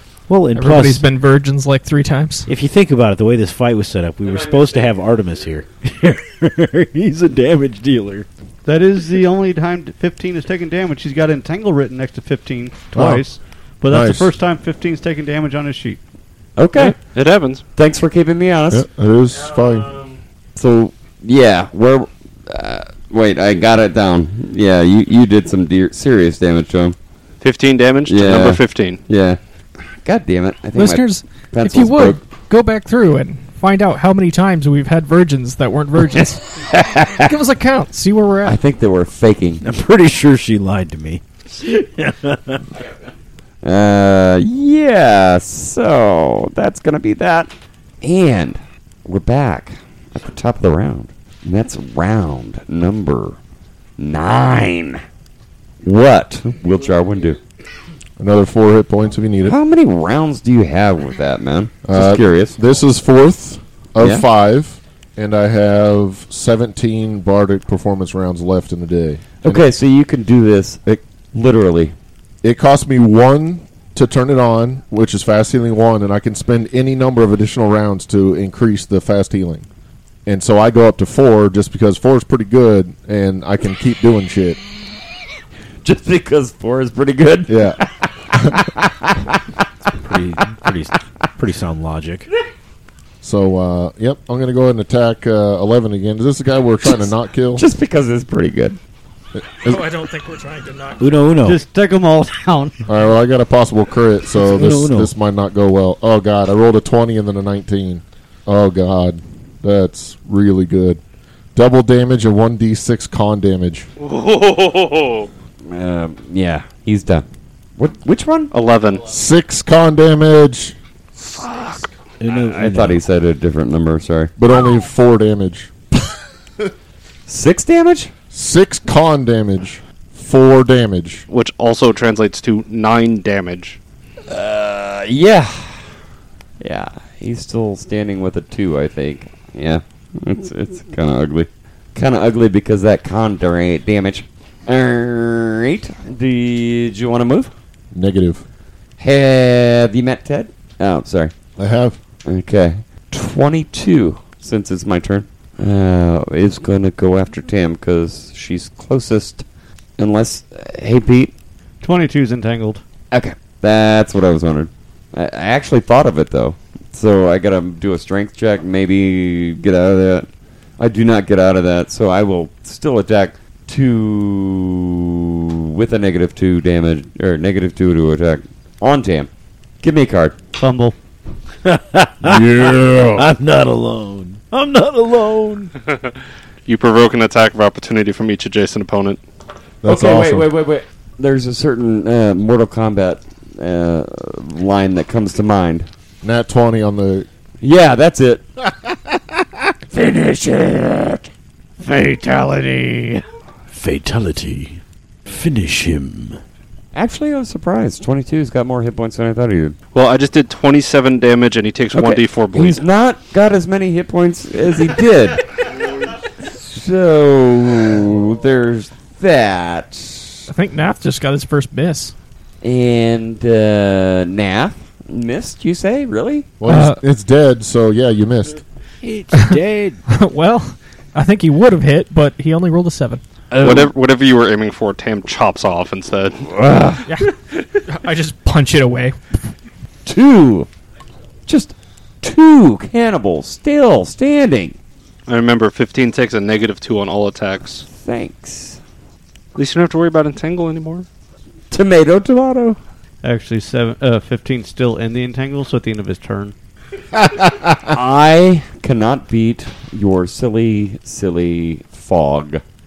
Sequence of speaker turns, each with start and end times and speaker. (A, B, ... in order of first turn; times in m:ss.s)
0:00.3-0:01.1 A
0:00.6-0:02.5 B
0:02.5-0:08.3 A
0:08.6-0:16.0 C
0:12.9-0:13.2 D
0:13.9-0:14.3 D
0:16.6-0:17.0 E
0:16.8-0:17.6 F
0:17.8-0:18.8 E
0:18.7-0:19.9 D
0:20.6-0:27.0 E
0:27.4-0:29.0 F
0:28.1-0:29.4 E
0:30.0-0:32.2 E
0:30.8-0:38.6 B
0:36.6-0:37.2 E
0:38.4-0:39.6 E
0:39.6-0:42.6 A
0:43.6-0:53.4 E
0:54.0-0:55.0 E
0:55.8-0:57.4 E
0:58.2-0:59.6 D
0:59.4-1:02.6 E
1:01.8-1:09.7 D
1:09.4-1:12.0 E
1:12.4-1:19.7 D
1:20.3-1:24.6 D
1:25.8-1:29.6 E
1:27.5-1:27.8 D
1:30.0-1:32.3 A
1:33.2-1:37.7 D
1:36.8-1:38.8 E
1:39.4-1:39.8 D
1:39.6-1:41.1 B
1:41.0-1:41.6 A
1:41.4-1:42.8 C
1:42.9-1:51.0 D
1:44.4-1:45.1 A
1:51.6-1:53.9 D
1:54.0-1:55.3 F
1:55.7-1:57.3 E
1:57.8-1:58.5 E
1:58.5-1:59.1 F
1:59.1-2:00.8 D
2:01.4-2:01.8 E
2:02.2-2:03.0 A
2:02.3-2:04.3 E
2:04.4-2:05.7 D
2:07.3-2:08.1 E
2:08.3-2:11.3 D
2:11.3-2:13.8 F
2:14.3-2:15.9 E
2:16.6-2:27.5 E
2:27.9-2:28.4 D
2:29.0-2:31.3 E
2:31.6-2:32.0 D
2:32.2-2:39.4 E
2:40.0-2:41.3 E
2:41.8-2:42.8 C
2:43.1-2:50.3 E
2:50.8-2:59.3 E
2:59.8-3:00.4 E
3:00.6-3:01.0 C
3:01.7-3:05.7 A
3:02.2-3:03.3 D
3:06.7-3:09.2 F
3:09.8-3:10.6 D
3:09.8-3:15.9 E
3:16.2-3:17.3 D
3:17.6-3:18.4 E
3:19.9-3:21.3 E
3:21.8-3:23.2 E
3:23.7-3:26.4 A
3:27.0-3:29.8 E
3:29.9-3:32.8 F
3:31.9-3:40.5 E
3:40.5-3:42.1 B
3:42.6-3:46.5 E
3:46.6-3:48.6 D
3:46.6-3:47.0 B
3:49.0-3:50.0 A
3:50.1-3:53.2 B
3:53.5-3:53.9 E
3:53.6-3:56.5 F
3:56.5-3:57.1 E
3:57.1-3:57.3 B
3:57.9-3:59.4 B
4:00.1-4:00.7 E
4:01.5-4:04.8 E
4:05.3-4:07.8 F
4:08.0-4:08.8 E
4:09.6-4:11.1 F
4:11.7-4:12.8 E
4:13.2-4:16.5 C
4:17.4-4:22.6 E